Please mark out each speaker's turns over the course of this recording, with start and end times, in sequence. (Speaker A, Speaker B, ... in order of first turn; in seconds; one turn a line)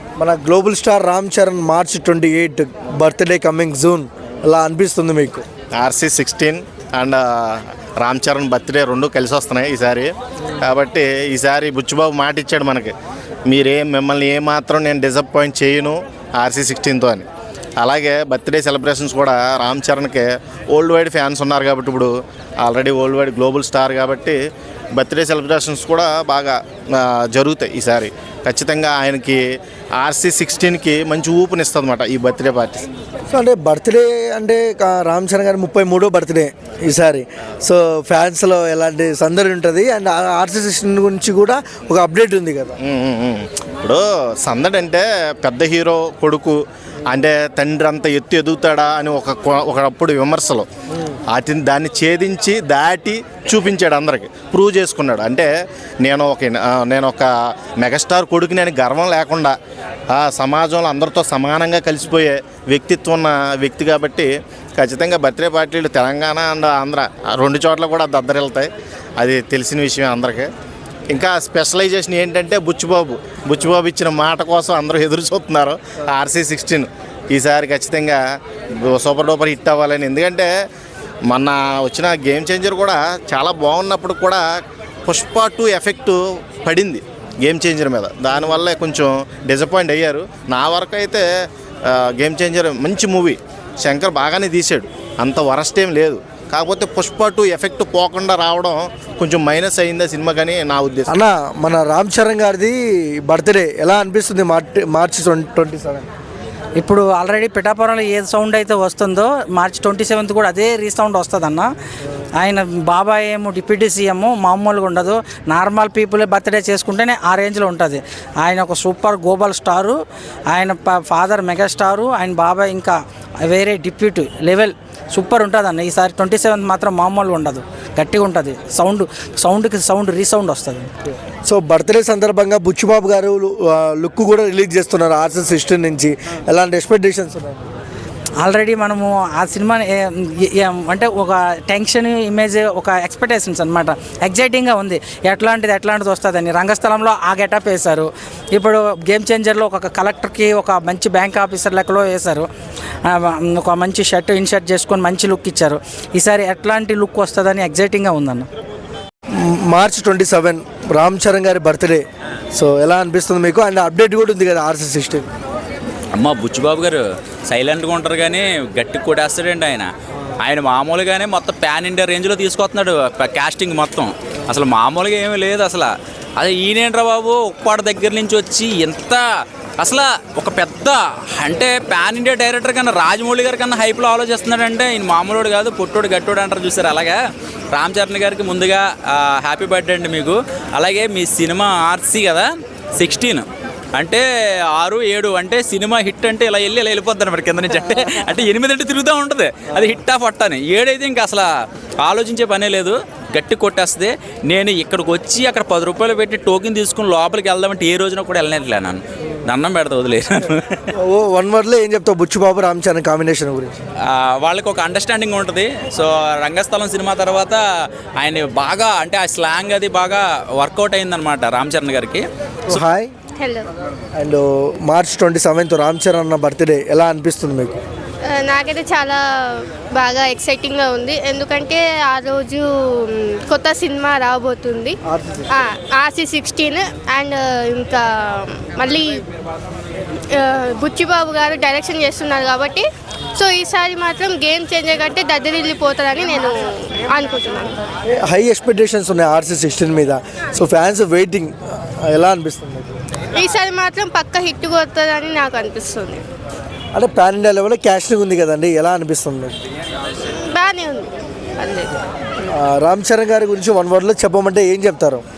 Speaker A: 0.2-5.4
Speaker B: 5.8-12.9
Speaker B: 13.5-17.3
Speaker B: 17.8-22.1
Speaker B: 22.6-24.4
Speaker B: 24.9-29.4
Speaker B: 30.0-32.9
Speaker A: 33.3-42.8
Speaker B: 42.8-50.7
Speaker B: 51.3-55.5
Speaker B: 56.0-57.3
Speaker B: 57.8-59.5
Speaker B: 60.1-70.5
Speaker B: 71.1-78.2
Speaker B: 78.8-80.5
Speaker B: 81.3-84.4
Speaker B: 85.1-91.2
Speaker B: 91.9-101.1
Speaker A: 101.1-106.1
Speaker C: 106.8-111.7
Speaker C: 112.4-120.0
Speaker C: 120.5-130.9
Speaker A: 131.5-137.8
Speaker C: 138.4-152.5
Speaker C: 153.1-158.5
Speaker A: 159.4-165.3
Speaker D: 166.2-169.9
Speaker D: 170.4-179.2
Speaker D: 179.8-187.2
Speaker D: 187.7-201.5
Speaker D: 202.0-210.9
Speaker A: 211.0-213.8
Speaker D: 214.0-217.6
Speaker D: 218.2-222.8
Speaker A: 222.7-223.1
Speaker E: 223.4-223.7
Speaker A: 224.2-227.8
Speaker E: 228.3-235.0
Speaker A: 235.1-235.5
Speaker E: 235.5-239.2
Speaker E: 240.3-242.8
Speaker E: 243.3-247.8
Speaker A: 248.1-253.0
Speaker E: 253.4-256.2
Speaker A: 256.9-259.6
Speaker E: 260.3-261.9
Speaker A: 262.5-265.2